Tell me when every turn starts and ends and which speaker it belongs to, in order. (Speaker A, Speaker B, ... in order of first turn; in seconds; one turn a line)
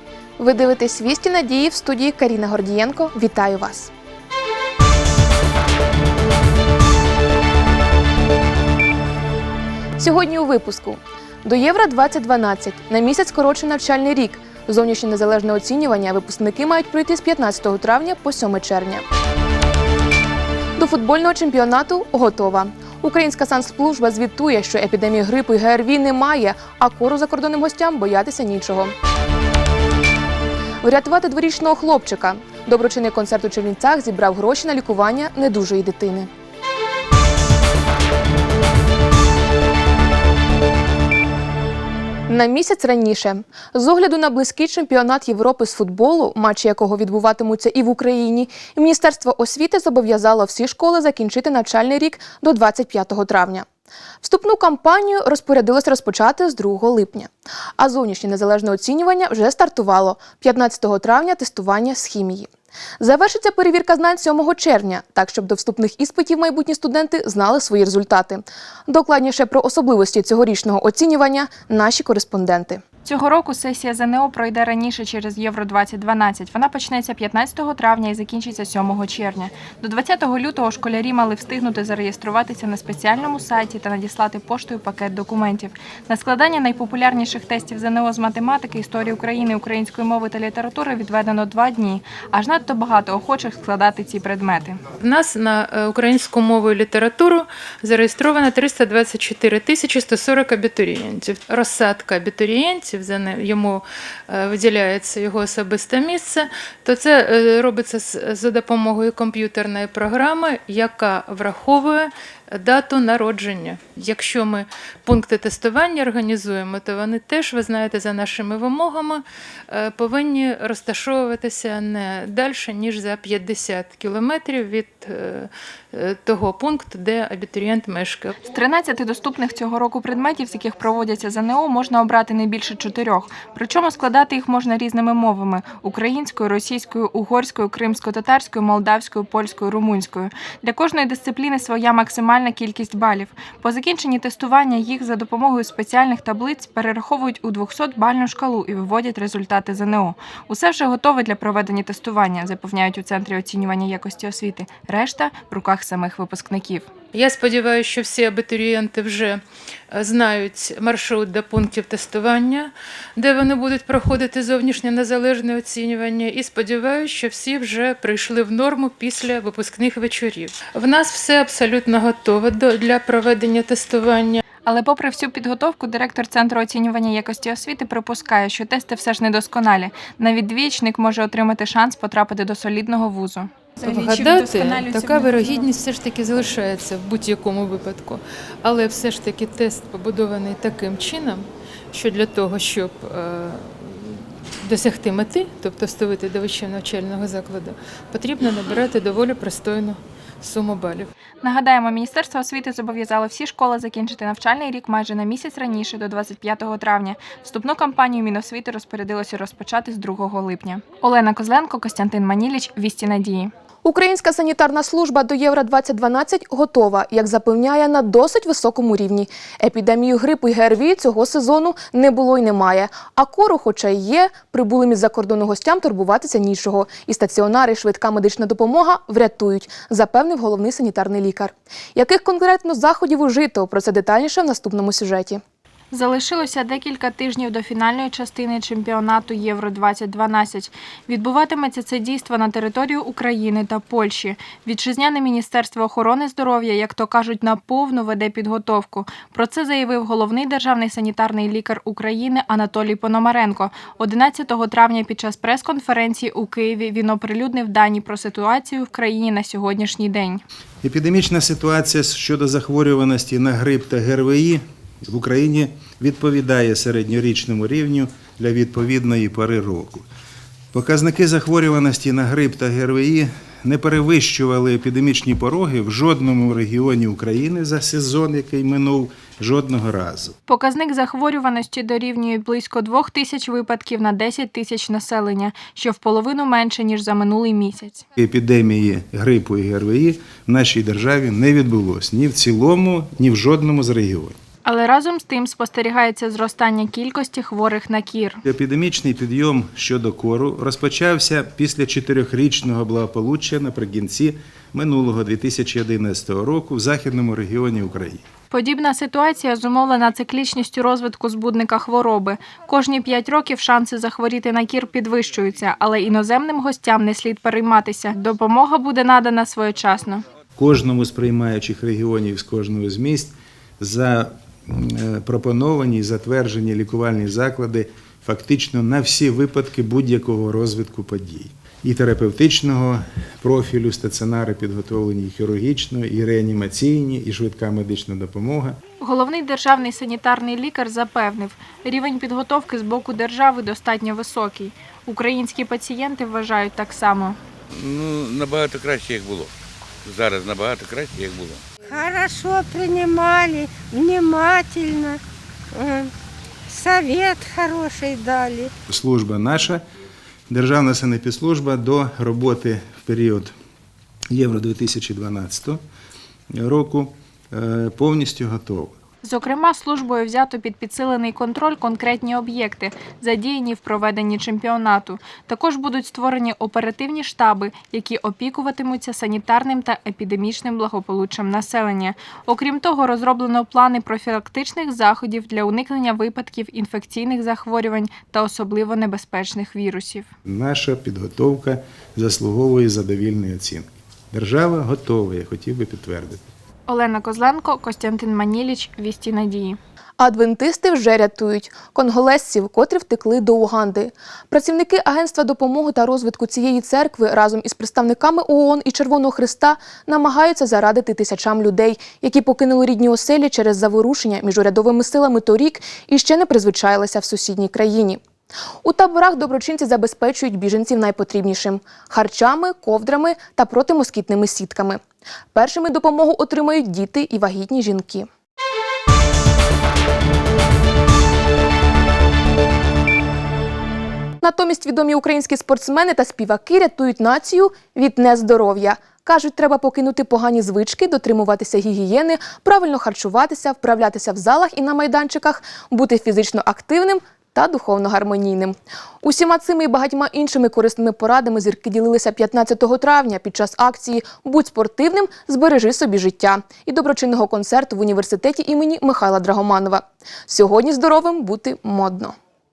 Speaker A: 0.4-3.9
Speaker A: 10.0-19.1
Speaker A: 20.8-28.9
Speaker A: 30.8-36.3
Speaker A: 42.3-53.7
Speaker A: 54.2-72.8
Speaker B: 73.0-94.8
Speaker C: 95.0-128.3
Speaker B: 128.4-156.9
Speaker C: 157.1-174.4
Speaker B: 174.6-185.7
Speaker C: 183.8-201.1
Speaker B: 201.4-213.5
Speaker A: 213.8-235.4
Speaker B: 235.9-260.4
Speaker D: 260.8-270.0
Speaker D: 270.7-280.4
Speaker B: 280.5-288.1
Speaker D: 288.2-294.4
Speaker B: 294.6-298.4
Speaker D: 298.4-308.2
Speaker B: 308.5-320.2
Speaker D: 320.6-338.8
Speaker B: 339.0-347.4
Speaker E: 347.7-349.5
Speaker E: 350.1-351.6
Speaker F: 351.9-355.2
Speaker F: 355.7-356.1
Speaker F: 356.7-358.7
Speaker D: 358.9-359.8
Speaker D: 360.5-363.5
Speaker D: 364.3-365.8
Speaker D: 366.5-369.0
Speaker B: 369.2-390.3
Speaker D: 390.5-396.4
Speaker B: 396.9-399.8
Speaker A: 400.2-418.2
Speaker A: 418.8-425.0
Speaker A: 425.5-428.3
Speaker A: 434.4-462.4